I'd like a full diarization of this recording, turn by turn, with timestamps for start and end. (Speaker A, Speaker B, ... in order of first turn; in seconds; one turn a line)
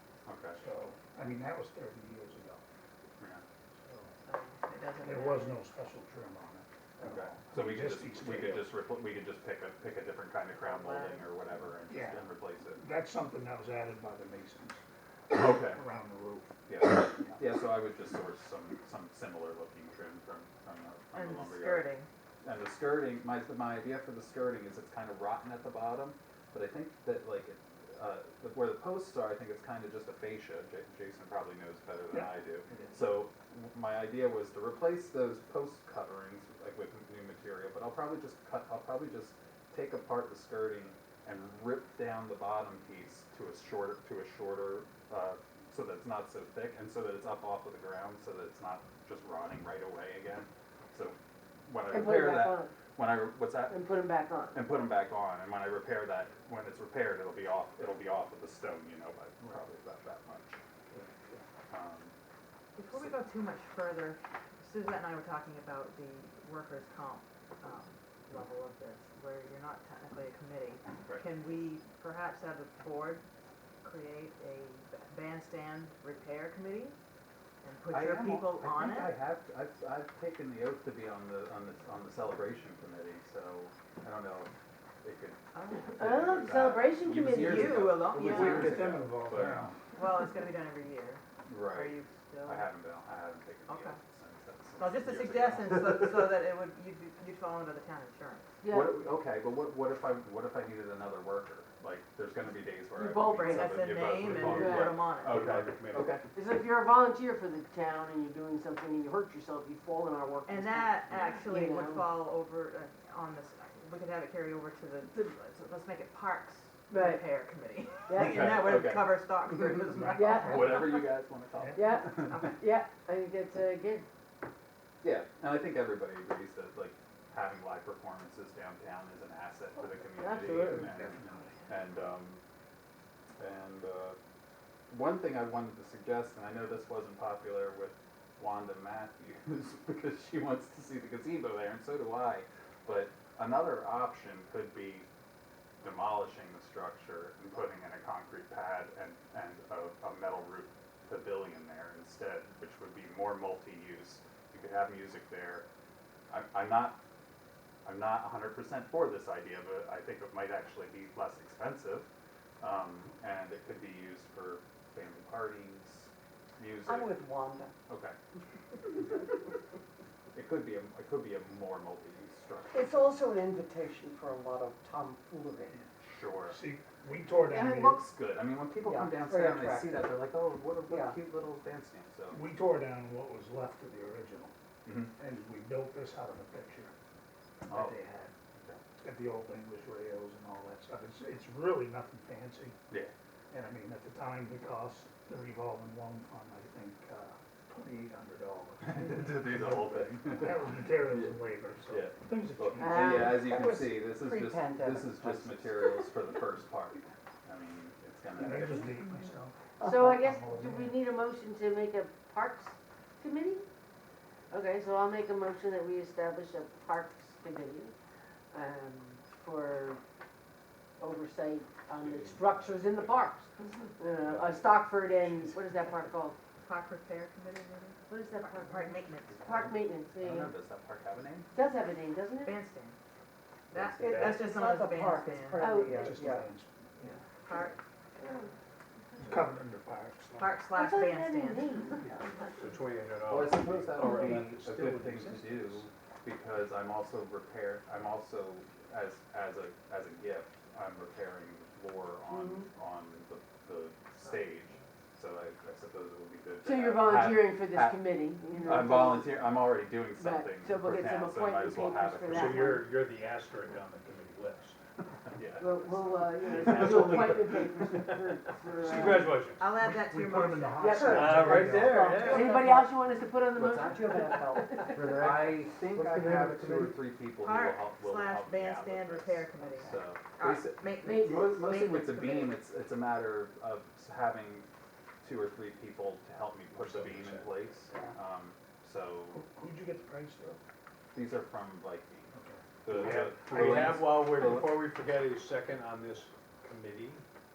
Speaker A: 0.3-0.6
Speaker B: 0.6-2.6
Speaker A: 3.2-3.5
Speaker B: 3.8-4.1
Speaker C: 4.3-5.6
Speaker B: 5.0-8.8
Speaker A: 7.0-12.8
Speaker C: 10.6-11.3
Speaker B: 11.9-14.8
Speaker A: 15.3-15.8
Speaker B: 15.3-17.4
Speaker A: 16.7-21.9
Speaker C: 21.1-22.1
Speaker A: 22.4-53.8
Speaker B: 32.1-33.0
Speaker D: 51.9-52.7
Speaker D: 53.7-54.6
Speaker A: 54.5-60.6
Speaker B: 60.9-61.4
Speaker A: 61.7-62.1
Speaker C: 62.8-73.2
Speaker C: 73.8-77.0
Speaker C: 77.6-79.1
Speaker A: 77.9-84.5
Speaker A: 85.0-85.4
Speaker C: 85.5-86.0
Speaker A: 86.0-89.9
Speaker D: 86.0-87.9
Speaker C: 87.4-88.9
Speaker B: 88.2-89.8
Speaker C: 90.0-92.7
Speaker A: 91.5-96.4
Speaker C: 93.7-94.0
Speaker C: 94.8-98.5
Speaker D: 98.6-99.0
Speaker A: 98.7-106.2
Speaker D: 103.0-105.0
Speaker C: 103.4-105.5
Speaker E: 104.2-106.2
Speaker D: 106.3-112.1
Speaker C: 110.5-121.0
Speaker D: 116.9-117.2
Speaker D: 118.1-118.9
Speaker A: 118.1-119.8
Speaker B: 119.9-120.7
Speaker D: 120.2-121.0
Speaker A: 120.4-122.5
Speaker B: 121.5-122.0
Speaker D: 121.7-124.0
Speaker C: 122.2-122.6
Speaker A: 125.0-132.4
Speaker D: 130.1-131.0
Speaker A: 133.4-134.2
Speaker A: 134.9-145.1
Speaker A: 145.8-155.7
Speaker A: 156.3-157.0
Speaker A: 157.8-162.1
Speaker A: 162.6-167.3
Speaker F: 166.8-167.7
Speaker A: 167.9-168.2
Speaker A: 170.3-173.1
Speaker F: 172.7-175.8
Speaker A: 175.8-176.6
Speaker B: 176.5-178.0
Speaker A: 177.5-182.4
Speaker F: 178.8-180.2
Speaker F: 180.9-181.2
Speaker B: 182.3-184.5
Speaker A: 184.8-185.2
Speaker B: 185.2-186.9
Speaker B: 187.7-188.3
Speaker A: 187.7-188.0
Speaker A: 188.6-188.8
Speaker B: 189.0-192.8
Speaker B: 193.5-203.3
Speaker A: 198.8-209.0
Speaker D: 202.8-203.4
Speaker F: 202.9-205.9
Speaker B: 208.3-211.0
Speaker F: 209.8-210.2
Speaker D: 209.8-213.7
Speaker D: 214.5-217.9
Speaker D: 218.5-220.0
Speaker D: 221.0-226.4
Speaker C: 226.6-229.5
Speaker D: 228.1-230.5
Speaker A: 229.4-231.5
Speaker D: 231.5-232.6
Speaker C: 232.4-233.0
Speaker C: 233.7-235.8
Speaker B: 233.8-234.4
Speaker F: 233.9-236.5
Speaker D: 235.6-236.2
Speaker B: 235.9-237.1
Speaker C: 237.4-237.8
Speaker D: 238.2-238.5
Speaker B: 239.2-240.6
Speaker C: 240.4-241.9
Speaker D: 240.8-242.2
Speaker B: 242.0-242.3
Speaker E: 242.5-244.6
Speaker A: 243.3-258.1
Speaker B: 243.9-245.9
Speaker D: 252.3-252.7
Speaker D: 256.6-259.6
Speaker A: 258.6-262.8
Speaker D: 260.1-262.9
Speaker E: 262.3-264.8
Speaker A: 265.4-265.9
Speaker D: 265.6-269.4
Speaker E: 266.5-269.8
Speaker C: 269.6-271.3
Speaker B: 269.8-272.2
Speaker D: 270.8-275.4
Speaker F: 270.8-272.9
Speaker E: 271.0-272.5
Speaker F: 273.5-277.0
Speaker A: 273.6-274.1
Speaker A: 275.0-284.7
Speaker C: 277.4-282.6
Speaker D: 281.0-281.9
Speaker A: 285.2-289.4
Speaker E: 286.7-287.6
Speaker B: 289.3-290.6
Speaker A: 291.1-294.8
Speaker B: 292.4-293.2
Speaker E: 292.9-297.2